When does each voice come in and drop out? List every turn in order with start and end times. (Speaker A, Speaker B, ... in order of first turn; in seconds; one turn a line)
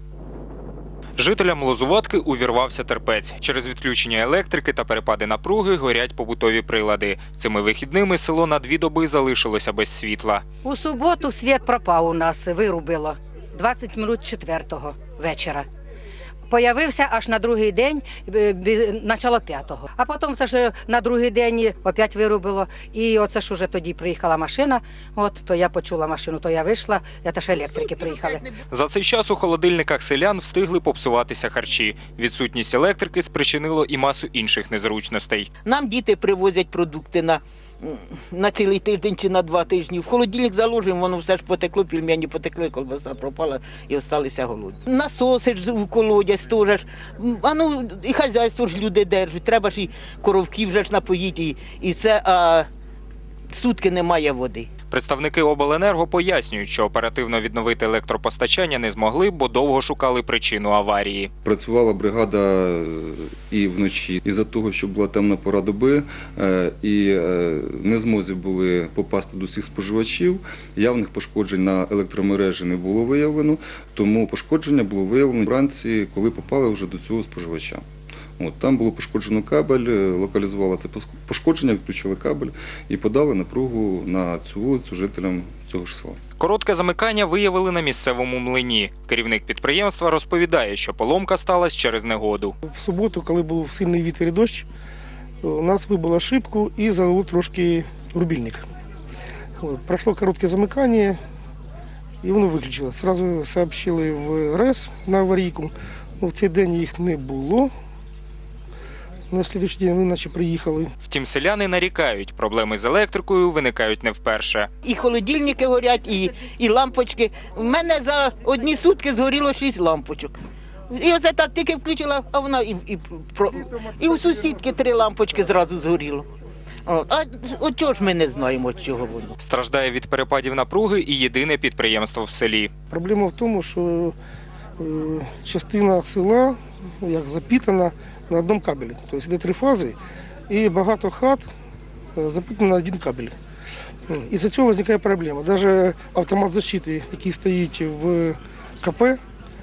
Speaker A: 1.2-10.4
Speaker B: 10.6-15.7
Speaker B: 16.5-28.4
Speaker C: 27.6-28.4
Speaker A: 28.7-35.5
Speaker C: 35.6-52.7
Speaker C: 53.5-54.7
Speaker A: 54.9-61.3
Speaker D: 61.4-77.8
Speaker D: 78.4-86.2
Speaker A: 86.4-92.5
Speaker E: 92.7-94.7
Speaker E: 95.4-98.6
Speaker E: 99.6-101.2
Speaker E: 102.2-107.7
Speaker E: 109.3-110.9
Speaker A: 111.0-114.7
Speaker C: 114.8-120.3
Speaker C: 120.9-126.3
Speaker C: 126.8-129.3
Speaker A: 129.4-132.7
Speaker E: 132.9-134.1
Speaker E: 134.8-139.9
Speaker E: 140.5-141.5
Speaker E: 142.2-143.3
Speaker E: 144.1-149.2